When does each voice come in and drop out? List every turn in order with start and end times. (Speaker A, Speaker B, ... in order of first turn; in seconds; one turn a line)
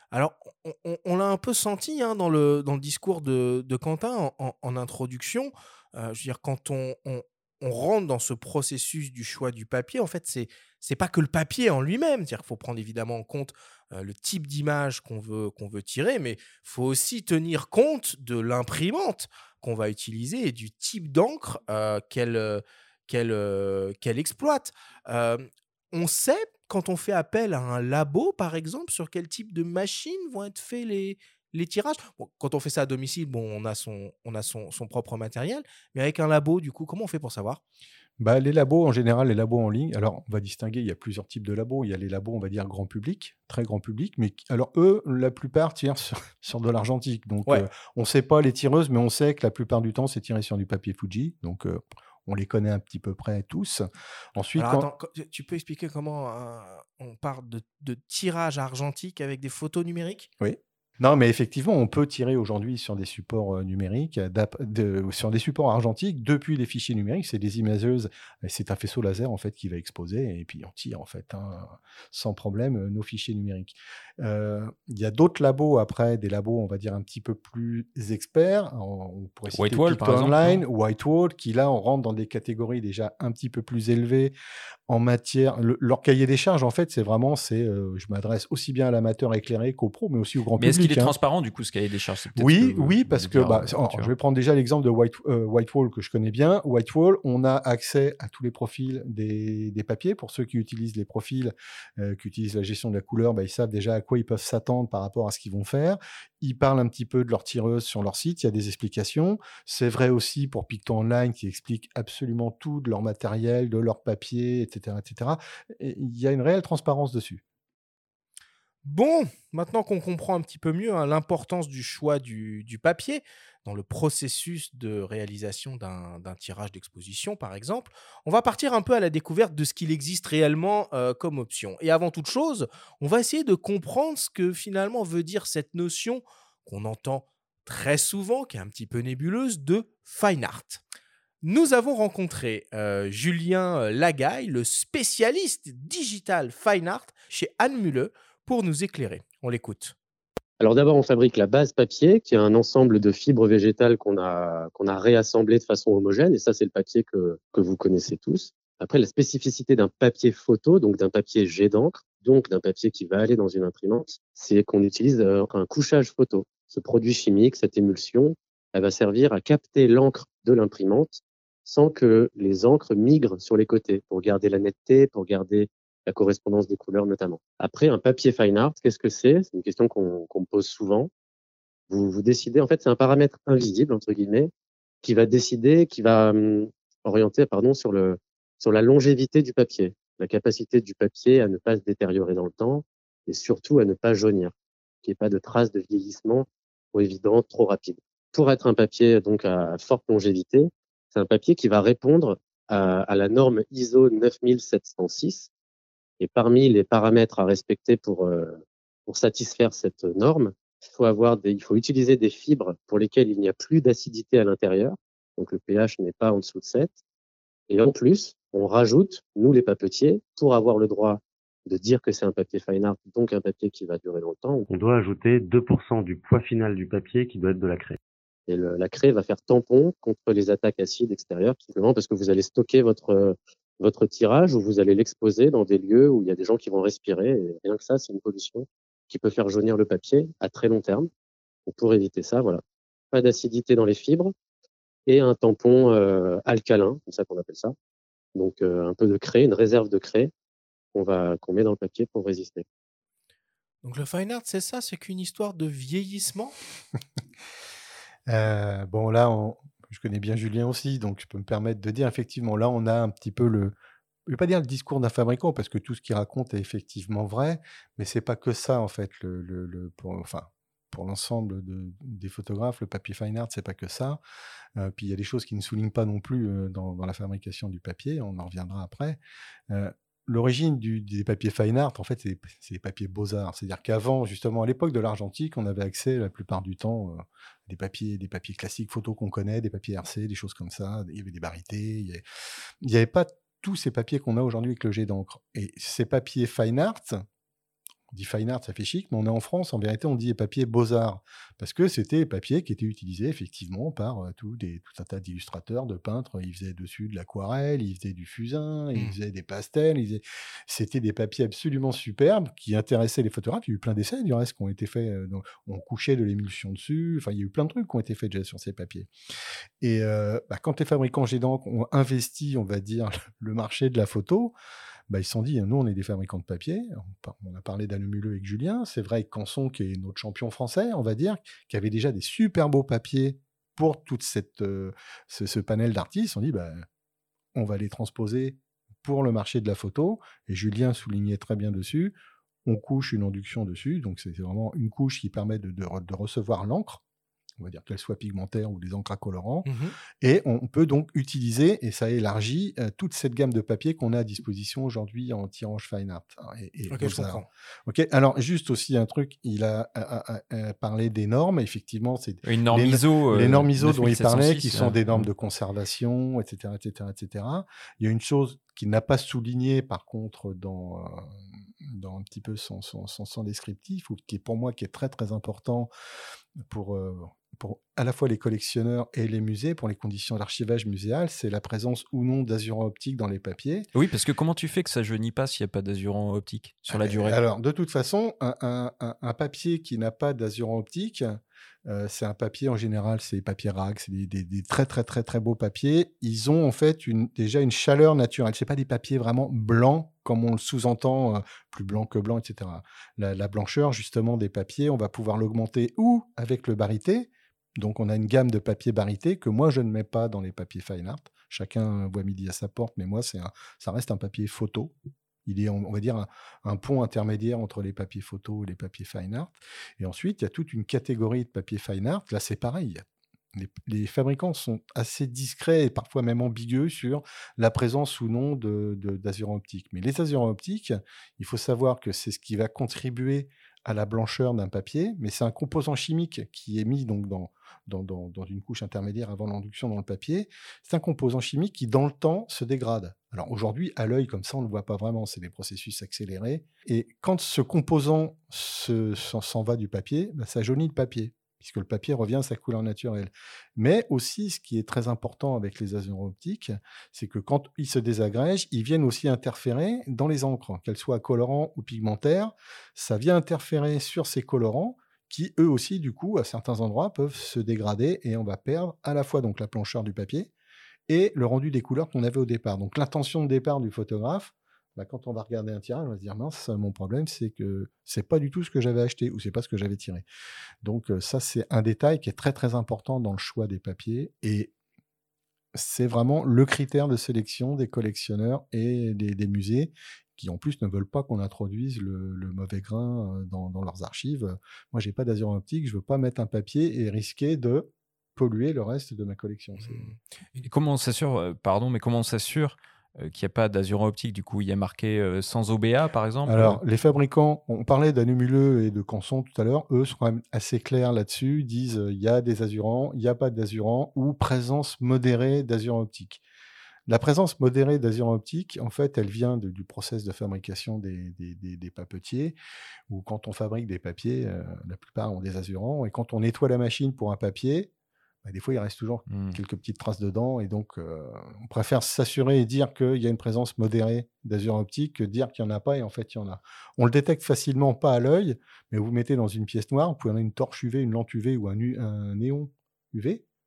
Speaker A: 0.1-37.6
Speaker B: 38.2-54.9
Speaker A: 54.6-60.3
Speaker B: 60.4-84.3
Speaker C: 79.5-80.6
Speaker B: 84.9-91.1
Speaker C: 90.6-94.1
Speaker B: 92.3-117.4
Speaker A: 118.8-140.8
Speaker A: 141.4-149.9
Speaker D: 150.6-181.1
Speaker D: 181.9-184.5
Speaker D: 185.0-194.5
Speaker D: 195.0-205.5
Speaker D: 206.2-216.9
Speaker D: 217.7-224.7
Speaker E: 224.7-228.0
Speaker D: 228.5-241.1
Speaker D: 241.7-244.3
Speaker D: 245.1-247.8
Speaker D: 248.3-250.3
Speaker D: 250.9-252.7
Speaker A: 253.8-256.6
Speaker B: 258.3-263.8
Speaker B: 264.3-274.2
Speaker B: 274.8-292.2
Speaker B: 292.8-297.2
Speaker B: 298.1-319.1
Speaker B: 319.8-324.5
Speaker B: 325.1-336.9
Speaker B: 337.6-347.0
Speaker B: 347.6-349.7
Speaker A: 349.7-349.9
Speaker B: 350.2-375.9
Speaker A: 356.9-357.5
Speaker C: 362.4-365.3
Speaker B: 376.6-383.9
Speaker C: 383.9-387.4
Speaker B: 386.9-414.9
Speaker B: 415.5-470.5
Speaker B: 471.1-480.3
Speaker B: 480.8-484.7
Speaker B: 485.7-500.1
Speaker A: 499.8-500.7
Speaker C: 500.6-506.8
Speaker B: 506.5-516.4
Speaker B: 517.1-522.6
Speaker B: 523.1-527.9
Speaker B: 528.4-543.4
Speaker C: 529.3-529.6